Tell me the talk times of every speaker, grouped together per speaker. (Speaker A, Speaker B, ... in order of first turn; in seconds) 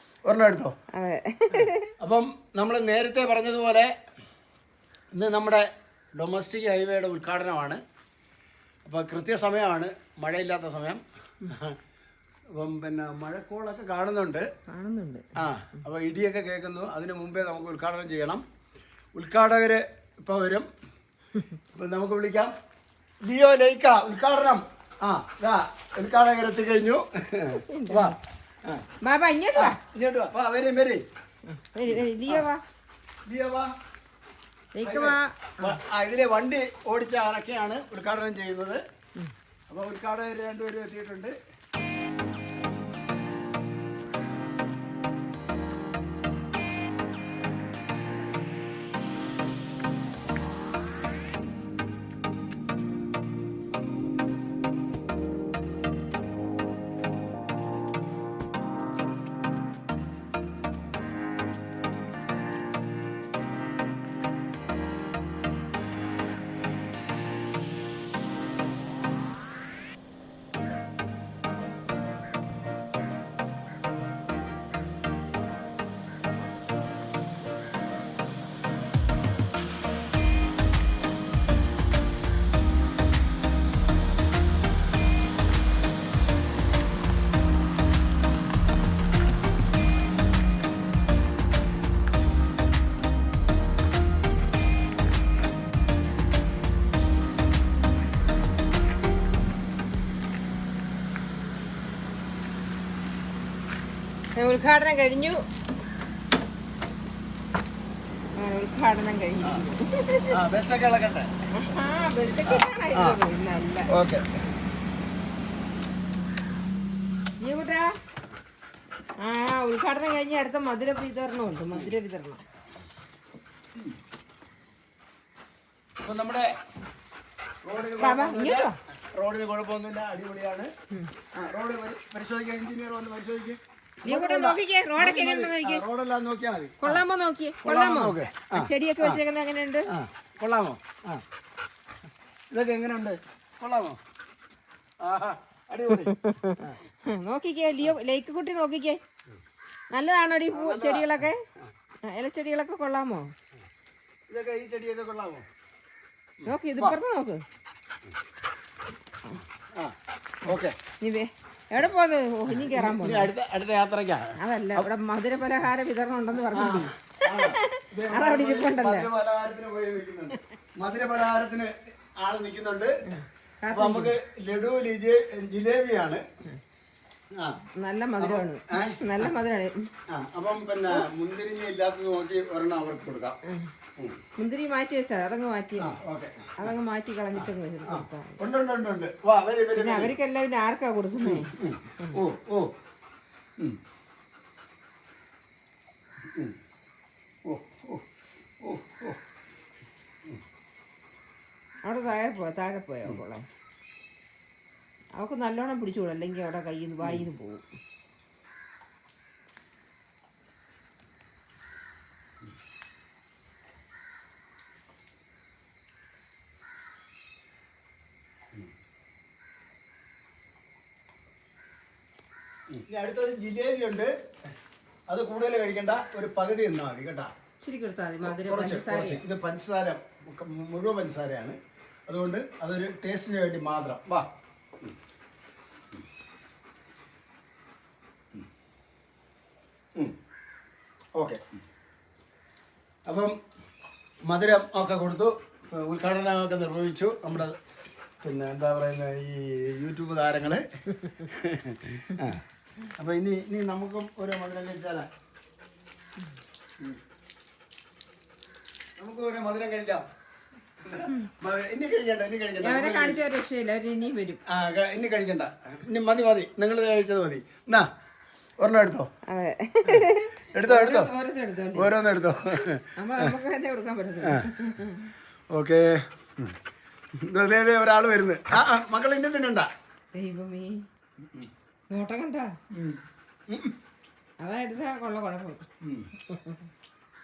Speaker A: 0.2-0.7, 2.0-3.9, 5.1-5.7, 6.2-7.8, 8.8-11.8, 12.5-14.4, 15.3-18.4, 19.1-20.7, 21.7-22.5, 23.2-28.8, 29.5-31.0, 31.9-32.4, 33.3-33.7, 34.8-38.8, 39.7-41.3, 110.2-111.3, 112.5-113.2, 113.9-114.4, 126.0-126.5, 127.6-130.7, 131.3-137.0, 137.6-139.2, 139.9-141.2, 142.5-144.0, 145.0-146.8, 150.5-151.1, 154.3-155.4, 156.4-157.0, 159.8-160.8, 162.5-164.9, 166.5-173.2, 173.7-176.2, 178.2-179.3, 180.1-183.4, 185.8-186.5, 187.3-190.1, 191.2-192.7, 197.5-198.1, 198.6-199.2, 222.7-224.1, 225.1-227.3, 228.2-234.3, 241.2-241.4, 243.1-243.4, 244.3-247.6, 248.2-255.1, 259.0-260.0, 260.8-263.2, 264.5-267.9, 268.6-269.1, 269.9-271.1, 271.7-273.3, 274.2-274.9, 275.5-276.5, 277.2-279.7, 282.7-283.7, 285.8-286.1
Speaker B: 0.9-1.9, 14.7-15.3, 27.5-28.2, 29.0-29.8, 31.5-32.6, 34.7-35.8, 104.3-105.4, 108.4-110.4, 111.5-113.9, 117.4-117.9, 119.2-122.4, 128.0-128.8, 134.0-135.8, 136.8-139.9, 145.9-149.0, 149.9-151.4, 152.0-153.3, 156.4-157.4, 160.5-163.3, 164.4-169.1, 173.1-174.1, 177.8-179.9, 183.4-183.7, 184.4-186.0, 186.6-188.4, 189.8-192.2, 201.8-203.4, 205.2-207.6, 227.6-229.2, 262.6-264.4, 269.2-271.9, 272.9-275.1, 280.1-280.8, 281.9-282.6, 284.4-285.7, 286.3-286.7